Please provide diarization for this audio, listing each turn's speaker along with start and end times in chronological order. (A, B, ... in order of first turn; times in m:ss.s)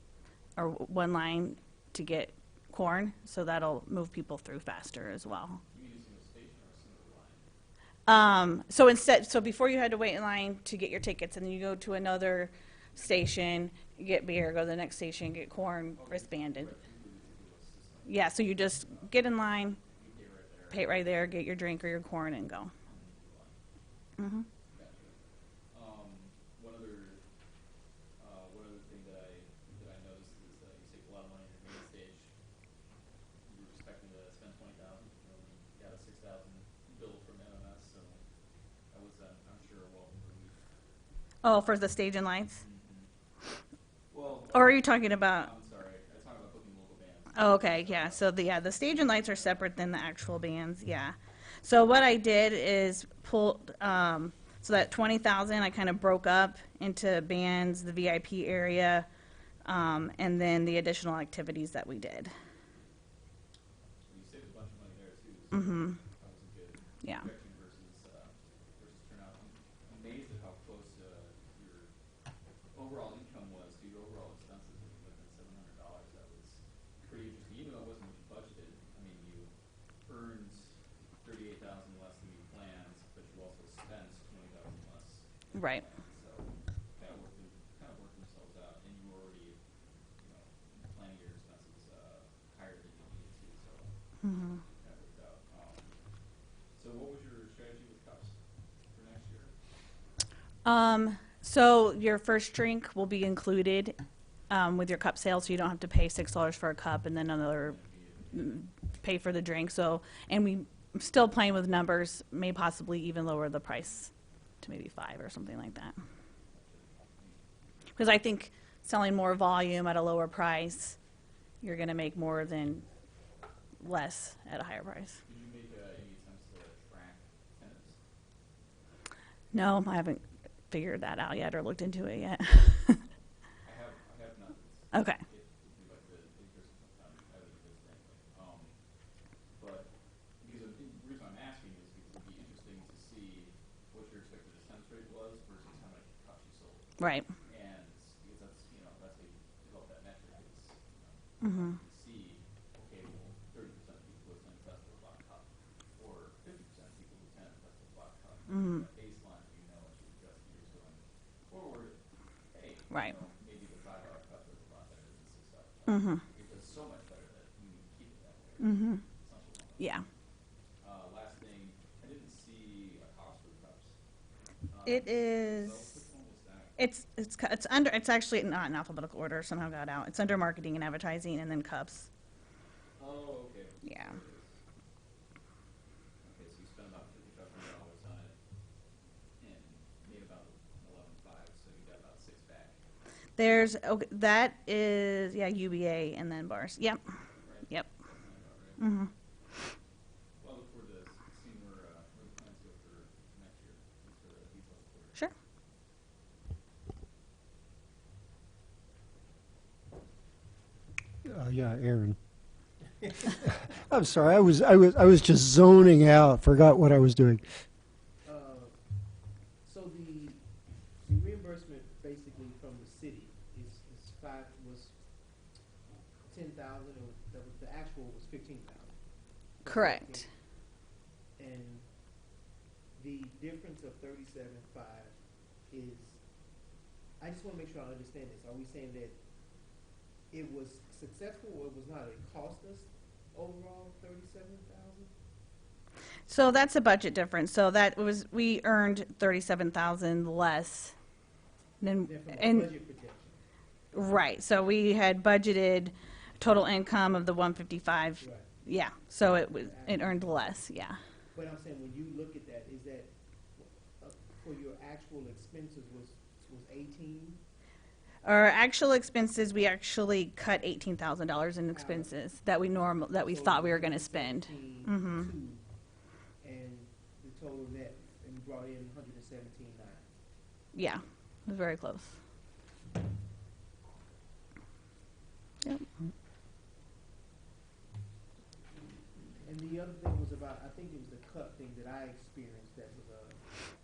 0:00.6-0:05.6 A
0:05.7-0:07.4 B
0:08.1-0:16.7 A
0:13.0-0:13.3 B
0:15.9-0:19.2 B
0:18.1-0:19.8 A
0:19.8-0:21.1 B
0:20.7-0:22.7 A
0:22.8-0:23.6 B
0:24.2-0:24.5 A
0:24.7-0:27.2 B
0:28.2-0:32.3 B
0:33.5-0:38.2 B
0:38.9-0:40.6 B
0:41.4-0:42.6 A
0:42.5-0:43.1 B
0:44.1-0:49.8 B
0:44.5-0:45.5 A
0:47.3-0:59.1 A
0:59.6-1:02.3 A
1:04.1-1:11.9 B
1:05.5-1:06.0 A
1:12.7-1:19.5 B
1:20.1-1:29.6 B
1:25.5-1:25.8 A
1:30.2-1:33.9 B
1:34.2-1:34.6 A
1:34.8-1:35.9 B
1:36.8-1:38.4 B
1:38.9-1:39.5 B
1:40.6-1:44.0 A
1:44.5-1:47.8 A
1:47.6-1:48.6 B
1:48.4-1:54.1 A
1:54.6-1:56.0 A
1:56.5-1:57.4 B
1:58.0-2:01.0 A
2:01.6-2:02.9 A
2:03.8-2:05.2 A
2:05.3-2:08.0 B
2:09.5-2:13.0 A
2:13.6-2:18.8 B
2:14.9-2:15.2 A
2:19.6-2:19.9 B
2:20.4-2:42.0 B
2:27.0-2:27.3 A
2:31.4-2:31.8 A
2:38.5-2:38.8 A
2:42.5-2:50.0 B
2:45.9-2:46.2 A
2:48.6-2:49.0 A
2:49.8-2:50.0 A
2:50.8-2:54.0 B
2:54.7-2:56.9 B
2:54.8-2:55.8 A
2:56.8-3:02.1 A
3:03.0-3:04.5 B
3:03.8-3:04.2 A
3:06.2-3:08.4 B
3:09.4-3:12.8 B
3:13.4-3:17.0 A
3:17.4-3:18.9 B
3:18.8-3:19.1 A
3:20.4-3:25.2 B
3:31.2-3:32.2 C
3:33.7-3:37.4 C
3:38.2-3:38.7 D
3:39.6-3:40.4 D
3:41.0-3:45.0 D
3:46.3-3:49.0 D
3:49.6-3:50.3 D
3:49.6-3:50.3 A
3:51.4-3:51.9 D
3:53.0-3:55.1 D
3:55.7-3:56.2 D
3:57.2-3:59.2 D
4:00.3-4:05.1 D
4:06.3-4:11.0 A
4:11.8-4:12.7 A
4:12.0-4:13.4 D
4:13.9-4:21.0 A
4:18.2-4:18.5 D
4:19.5-4:20.5 D
4:21.3-4:27.4 D
4:28.2-4:35.3 A
4:31.7-4:32.1 D
4:33.2-4:35.6 D
4:36.4-4:40.1 D
4:40.7-4:42.2 A
4:49.4-4:53.4 D